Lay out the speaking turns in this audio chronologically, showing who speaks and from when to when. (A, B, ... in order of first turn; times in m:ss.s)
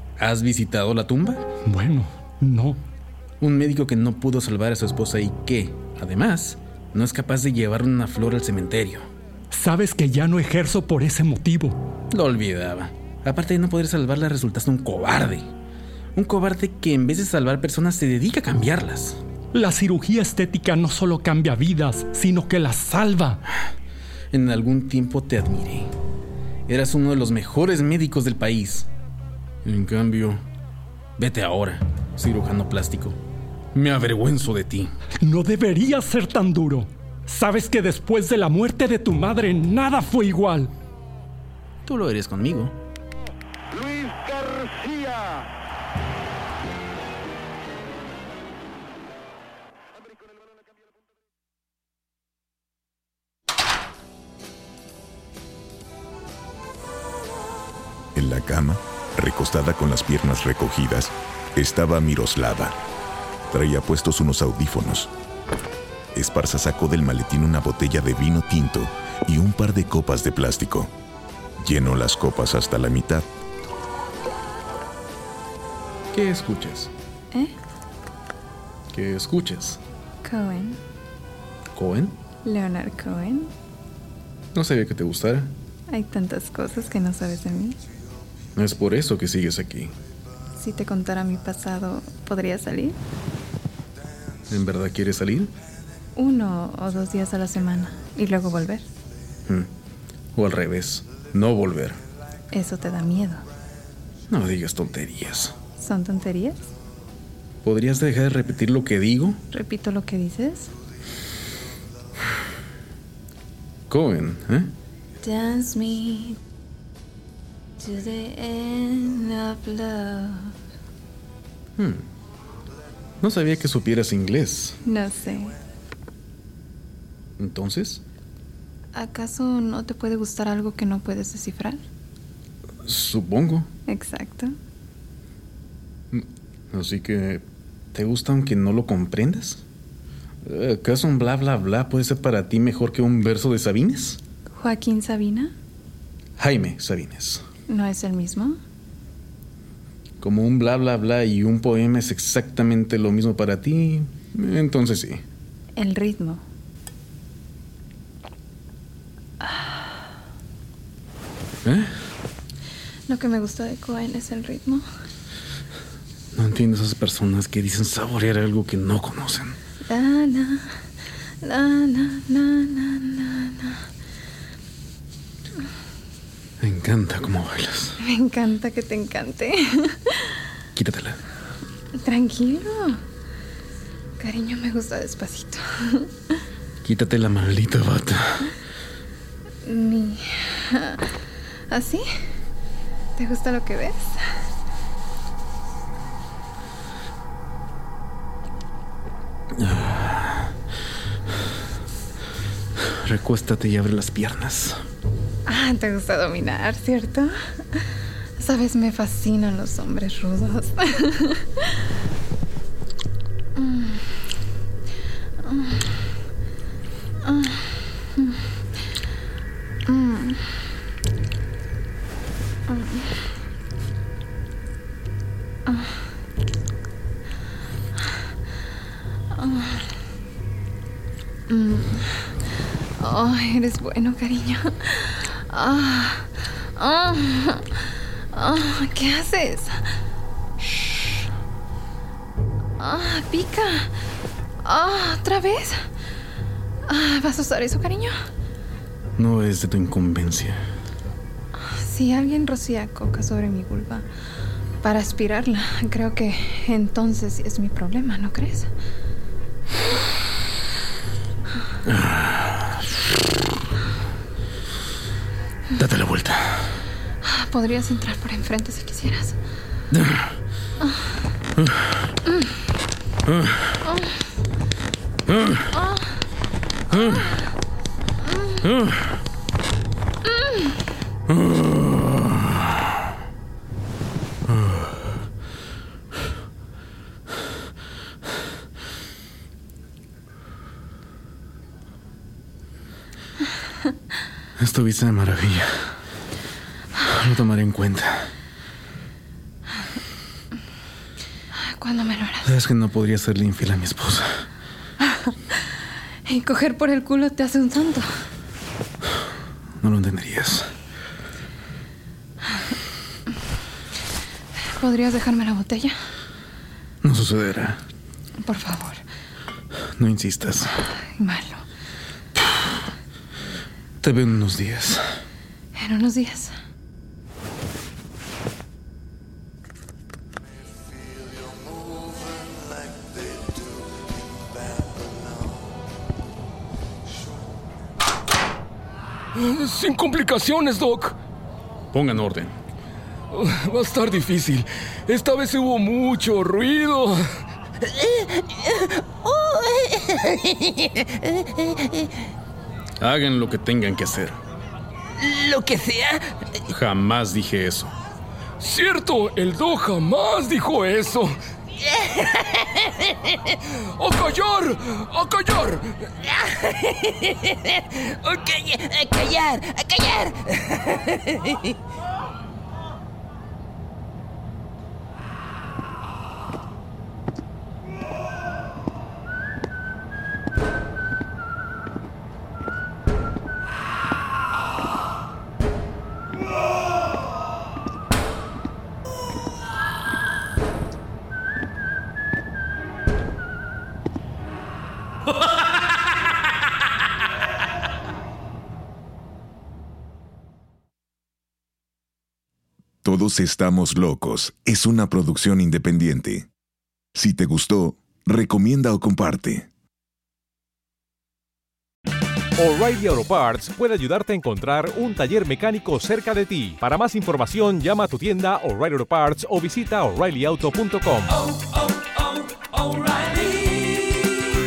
0:00.2-0:01.5 A
0:01.6-0:02.8 B
0:03.4-0:09.0 A
0:09.5-0:11.8 B
0:12.1-0:15.5 A
0:16.2-0:19.2 A
0:19.5-0:23.4 B
0:24.3-0:25.9 A
0:26.7-0:28.9 A
0:29.6-0:30.4 A
0:31.2-0:33.2 A
0:33.7-0:34.9 A
0:35.2-0:40.7 B
0:41.8-0:42.8 A
0:58.1-1:02.8 C
1:03.5-1:05.1 C
1:06.1-1:10.9 C
1:11.6-1:13.3 C
1:16.1-1:16.9 A
1:18.9-1:19.8 A
1:20.2-1:20.8 D
1:21.7-1:22.2 A
1:22.4-1:23.5 D
1:24.5-1:25.5 A
1:25.9-1:27.8 D
1:28.6-1:29.9 A
1:30.6-1:33.0 D
1:34.5-1:35.5 A
1:36.2-1:38.9 D
1:40.3-1:42.0 A
1:42.5-1:43.4 D
1:44.3-1:45.5 A
1:45.8-1:46.6 D
1:47.6-1:49.4 A
1:49.5-1:50.7 D
1:53.9-1:54.7 A
1:55.2-1:56.4 D
1:57.8-2:00.5 D
2:01.8-2:02.1 A
2:03.2-2:04.8 A
2:04.8-2:05.6 D
2:07.4-2:08.0 A
2:08.9-2:11.8 D
2:12.8-2:13.7 A
2:13.9-2:14.5 D
2:16.1-2:19.6 A
2:20.4-2:24.2 A
2:24.6-2:25.5 D
2:26.4-2:27.4 A
2:27.7-2:28.6 D
2:30.2-2:35.2 A
2:35.8-2:36.4 D
2:39.4-2:39.9 D
2:41.6-2:41.9 A
2:43.1-2:44.8 D
2:46.3-2:49.6 A
2:49.9-2:50.7 D
2:51.4-2:53.9 D
2:56.6-2:58.0 A
2:58.0-3:00.4 D
3:00.8-3:01.2 A
3:01.9-3:03.0 D
3:04.2-3:06.3 D
3:06.8-3:08.5 A
3:09.6-3:11.1 D
3:11.7-3:12.0 D
3:13.2-3:14.2 D
3:19.6-3:20.5 A
3:22.8-3:24.8 A
3:25.4-3:31.8 D
3:33.6-3:34.1 D
3:35.4-3:36.1 D
3:37.2-3:38.5 D
3:39.9-3:40.6 D
3:42.7-3:43.2 D
3:45.6-3:46.0 D
3:49.3-3:49.9 D
3:51.5-3:52.3 D
3:53.0-3:59.8 D
4:02.8-4:03.9 D
4:04.6-4:05.9 D
4:06.9-4:08.1 D
4:09.2-4:10.6 A
4:11.6-4:14.1 D
4:14.8-4:18.7 D
4:21.9-4:22.7 A
4:25.8-4:26.6 A
4:27.2-4:29.4 D
4:29.9-4:30.3 A
4:30.8-4:31.1 D
4:31.6-4:31.8 A
4:33.3-4:33.6 A
4:35.3-4:35.7 A
4:36.9-4:37.4 A
4:38.6-4:39.0 A
4:41.3-4:42.6 A
4:44.5-4:44.9 A
4:54.6-4:55.8 A
4:57.0-4:58.3 A
5:01.5-5:02.5 D
5:02.4-5:04.4 A
5:05.0-5:05.5 D
5:06.2-5:08.1 D
5:09.8-5:10.7 A
5:14.7-5:15.9 D
5:17.0-5:17.8 A
5:18.4-5:19.0 D
5:20.0-5:20.7 A
5:21.2-5:21.6 D
5:24.0-5:25.0 A
5:25.7-5:26.5 D
5:39.3-5:41.2 E
5:41.9-5:42.6 A
5:43.3-5:47.2 E
5:47.8-5:52.1 F
5:53.0-5:54.4 A
5:55.2-5:56.5 F
5:56.7-5:57.9 A
5:58.6-6:01.4 E
6:01.8-6:03.4 F
6:03.6-6:06.2 E
6:06.4-6:11.8 F
6:43.0-6:46.5 C
6:47.1-6:49.7 C
6:52.6-7:01.3 G